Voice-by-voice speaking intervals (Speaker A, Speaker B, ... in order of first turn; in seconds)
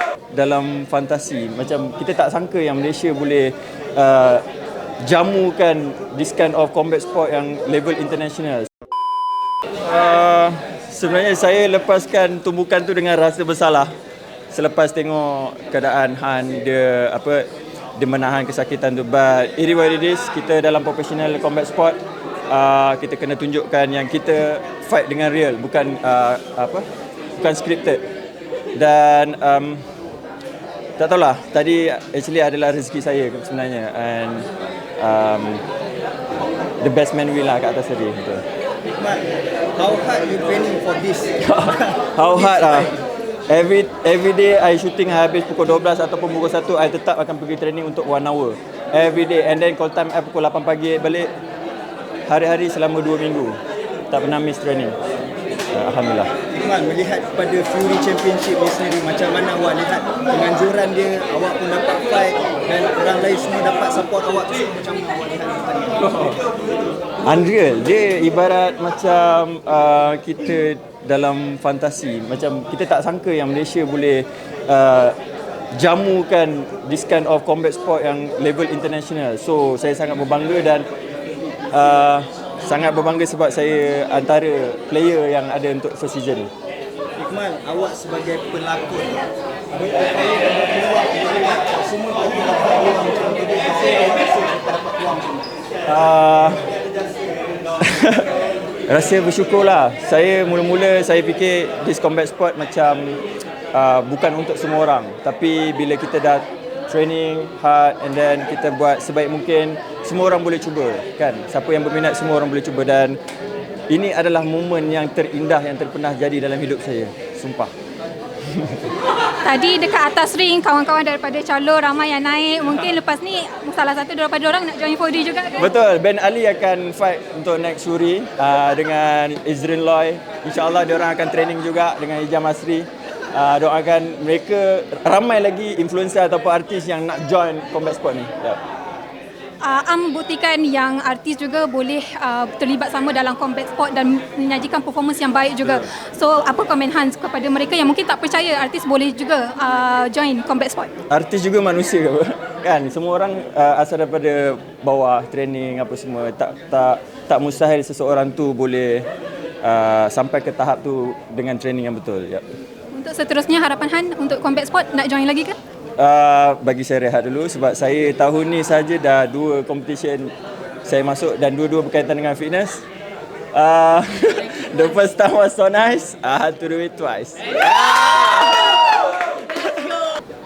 Speaker A: 0.3-4.5, 5.0-8.7, 9.8-13.9, 14.5-26.9, 27.4-28.0, 28.8-29.8, 31.0-34.5, 35.0-35.6, 36.8-38.4, 41.4-42.9, 43.5-51.3, 52.3-53.6, 54.1-55.0, 55.7-56.3, 66.0-66.4, 67.2-75.2, 75.8-80.9, 81.7-86.5, 95.8-96.6, 97.8-98.3, 98.9-113.2, 113.9-117.7, 118.5-118.9, 125.6-138.6, 151.1-159.1, 159.6-162.4, 166.0-170.3, 170.8-172.8, 173.5-180.0
Speaker B: 38.9-41.4, 56.5-66.0, 87.2-89.2, 89.8-95.5
Speaker C: 119.4-125.7, 139.6-150.9, 162.9-165.6